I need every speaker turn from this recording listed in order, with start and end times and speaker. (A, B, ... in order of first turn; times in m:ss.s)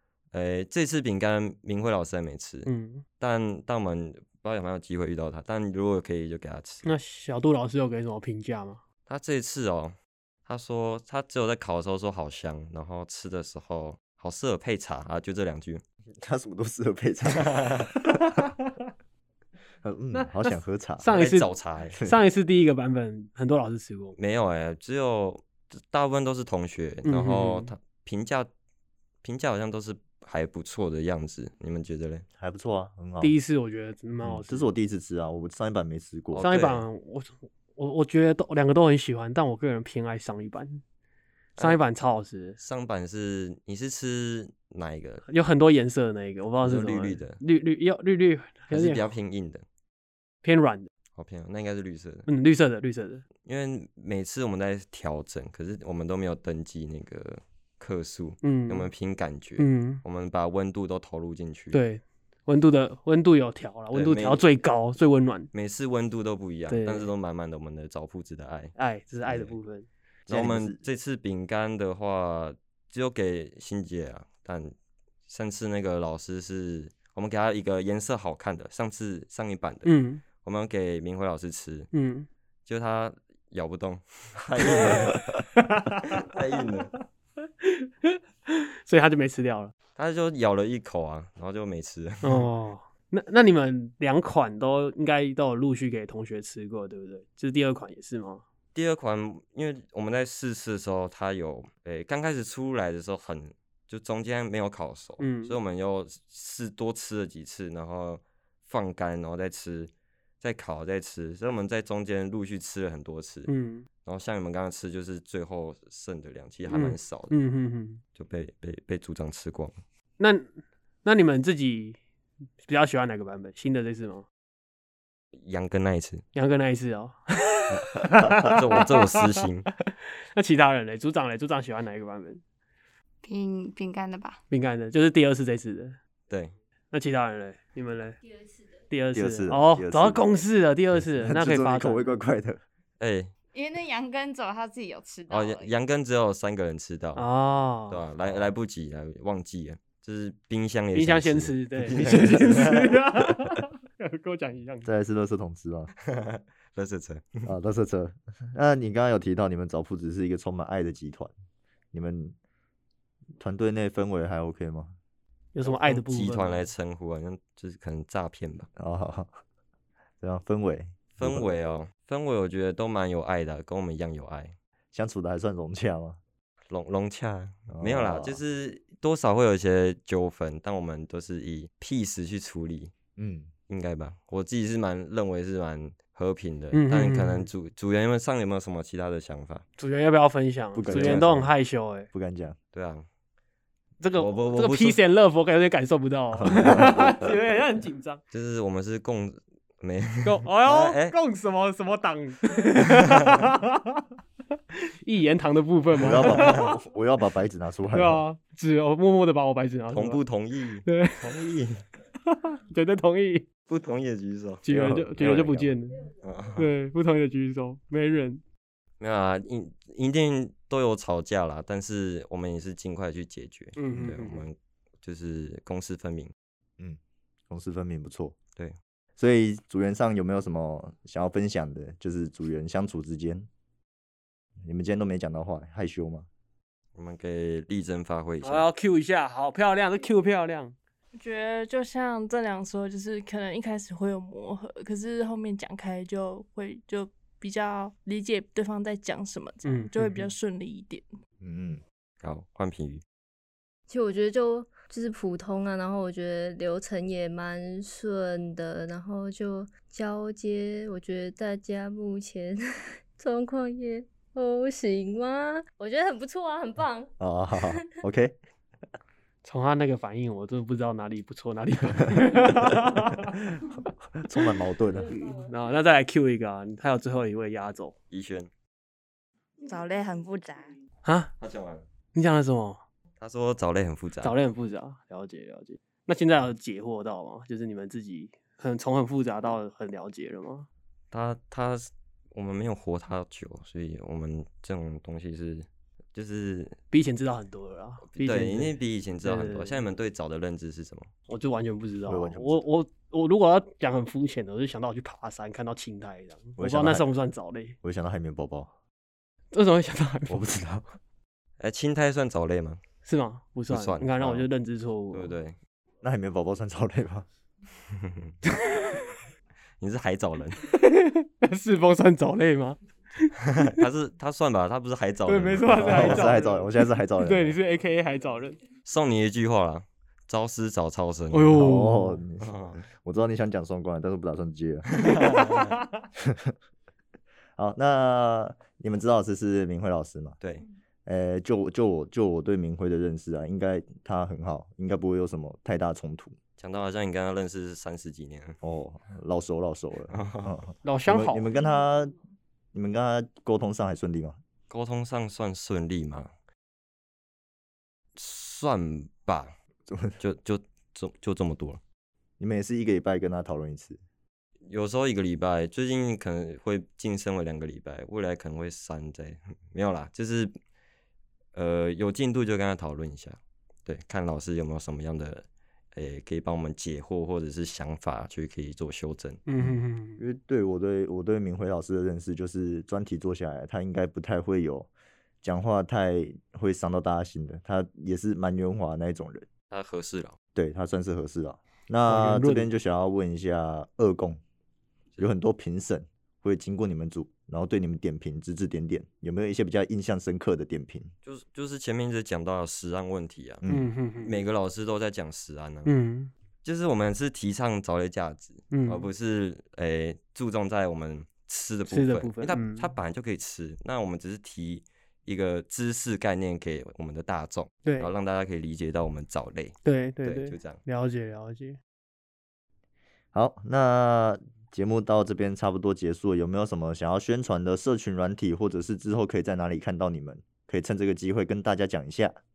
0:00.3-0:02.7 A
0:02.7-0:03.0 B
0:03.2-0:06.9 A
0:06.8-0:08.8 B
0:09.1-0:10.0 A
0:10.5-0:15.8 A
0:16.2-0:18.4 C
0:17.4-0:17.9 A
0:19.8-0:21.1 C
0:20.1-0:24.2 B
0:21.1-0:22.0 A
0:24.2-0:28.5 A
0:27.0-0:27.7 B
0:29.2-0:32.2 A
0:32.4-0:33.4 C
0:33.2-0:34.7 B
0:34.2-0:36.5 C
0:36.3-0:36.8 A
0:36.4-0:40.8 B
0:41.6-0:42.6 B
0:42.6-0:45.2 A
0:45.3-0:49.1 B
0:46.6-0:47.4 A
0:48.7-0:49.6 A
0:50.4-0:50.9 B
0:51.2-0:52.3 A
0:52.3-0:53.2 B
0:53.4-1:01.8 A
0:58.4-0:58.9 B
0:59.6-1:00.0 B
1:01.7-1:05.5 B
1:03.9-1:04.4 A
1:05.5-1:08.8 A
1:06.7-1:07.1 B
1:08.8-1:09.9 B
1:09.3-1:09.6 A
1:10.3-1:14.7 A
1:10.3-1:10.8 C
1:15.3-1:21.9 A
1:19.8-1:20.2 B
1:21.9-1:22.3 B
1:22.7-1:25.4 A
1:24.6-1:26.3 B
1:26.2-1:26.9 A
1:27.6-1:29.7 B
1:30.0-1:32.4 A
1:32.2-1:38.4 B
1:38.8-1:53.5 A
1:45.2-1:45.6 B
1:53.5-1:53.9 B
1:54.0-1:57.3 A
1:56.7-1:58.0 B
1:58.2-1:59.8 A
2:00.2-2:00.5 B
2:01.0-2:02.0 B
2:02.6-2:04.3 B
2:05.4-2:06.2 A
2:06.4-2:08.9 B
2:08.4-2:09.7 A
2:09.9-2:12.4 B
2:13.2-2:14.4 D
2:14.5-2:16.0 B
2:16.3-2:16.6 A
2:16.9-2:18.2 B
2:18.9-2:22.1 B
2:19.1-2:20.2 C
2:21.0-2:22.6 C
2:23.0-2:23.3 A
2:23.5-2:25.7 D
2:25.3-2:27.3 A
2:27.2-2:28.0 B
2:27.9-2:33.0 A
2:28.2-2:28.5 C
2:30.9-2:34.9 B
2:34.8-2:35.9 C
2:36.0-2:37.5 A
2:37.4-2:41.3 C
2:41.9-2:42.4 C
2:43.4-2:45.0 C
2:45.5-2:46.6 B
2:45.6-2:48.7 A
2:48.8-2:49.3 C
2:50.2-2:51.5 C
2:51.2-2:54.6 A
2:54.9-2:56.2 C
2:56.7-3:02.9 A
2:57.7-2:58.4 C
3:03.2-3:03.5 C
3:03.7-3:09.6 A
3:06.7-3:07.5 B
3:09.8-3:12.1 B
3:10.7-3:11.5 C
3:10.9-3:11.3 A
3:12.1-3:12.6 C
3:12.7-3:13.0 A
3:14.0-3:18.2 B
3:14.2-3:15.0 A
3:16.5-3:17.0 C
3:16.6-3:17.3 A
3:18.3-3:21.2 A
3:20.2-3:24.0 B
3:25.0-3:26.8 B
3:26.0-3:28.2 C
3:26.3-3:26.6 A
3:27.9-3:30.2 B
3:29.9-3:31.8 A
3:30.9-3:31.5 B
3:32.3-3:33.5 B
3:33.7-3:35.4 A
3:34.6-3:38.4 B
3:34.7-3:35.7 C
3:36.2-3:36.7 A
3:39.0-3:46.3 A
3:43.8-3:44.4 B
3:46.8-3:48.4 C
3:49.2-3:53.5 C
3:54.6-3:56.3 C
3:57.0-3:58.7 A
3:58.4-4:00.8 B
4:01.1-4:11.1 E
4:09.6-4:10.3 B
4:11.4-4:11.8 C
4:12.2-4:13.0 A
4:13.9-4:27.9 F
4:27.2-4:28.4 C
4:29.4-4:33.6 B
4:34.1-4:35.1 C
4:35.0-4:38.0 B
4:38.1-4:38.5 A
4:39.6-4:40.7 D
4:41.0-4:41.3 B
4:41.4-4:41.8 A
4:42.1-4:42.8 B
4:43.2-4:44.4 A
4:44.2-4:50.7 B
4:51.1-4:56.8 A
4:56.9-4:59.8 B
4:58.1-5:01.1 A
5:01.3-5:07.8 B
5:02.1-5:02.7 C
5:06.6-5:07.1 C
5:07.8-5:08.7 C
5:09.5-5:10.4 B
5:10.3-5:11.0 C
5:11.6-5:12.8 A
5:13.0-5:15.3 B
5:13.7-5:14.5 A
5:15.1-5:15.6 A
5:16.0-5:17.3 C
5:18.0-5:18.4 A
5:18.5-5:19.2 B
5:19.8-5:20.6 A
5:20.6-5:23.8 B
5:23.5-5:26.4 A
5:25.3-5:28.6 B
5:25.8-5:27.6 C
5:28.8-5:31.7 A
5:31.3-5:32.2 B
5:31.6-5:35.1 C
5:32.4-5:32.8 A
5:34.9-5:35.8 A
5:35.4-5:36.0 B
5:36.2-5:36.5 C
5:37.6-5:40.4 C
5:40.4-5:40.7 A
5:41.0-5:46.4 C
5:46.6-5:48.6 A
5:48.6-5:52.2 C
5:50.1-5:50.6 A
5:50.8-5:51.5 B
5:52.7-5:54.4 C
5:54.7-5:56.3 A
5:58.2-5:59.5 A
5:59.9-6:00.2 C
6:00.2-6:01.8 A
6:02.4-6:04.0 C
6:04.7-6:10.5 A
6:11.5-6:19.4 A
6:19.5-6:20.2 B
6:19.6-6:24.9 C
6:25.4-6:29.5 C
6:29.7-6:30.4 A
6:30.6-6:34.4 C
6:32.1-6:32.7 B
6:35.2-6:41.1 C
6:41.2-6:43.6 A
6:43.6-6:43.9 C
6:43.7-6:44.4 B
6:44.2-6:45.9 A
6:45.8-6:46.3 B
6:46.6-7:00.8 A
6:48.7-6:49.1 B
6:51.9-6:52.9 B
6:57.8-6:58.1 B
6:59.8-7:01.8 B
7:03.3-7:12.4 C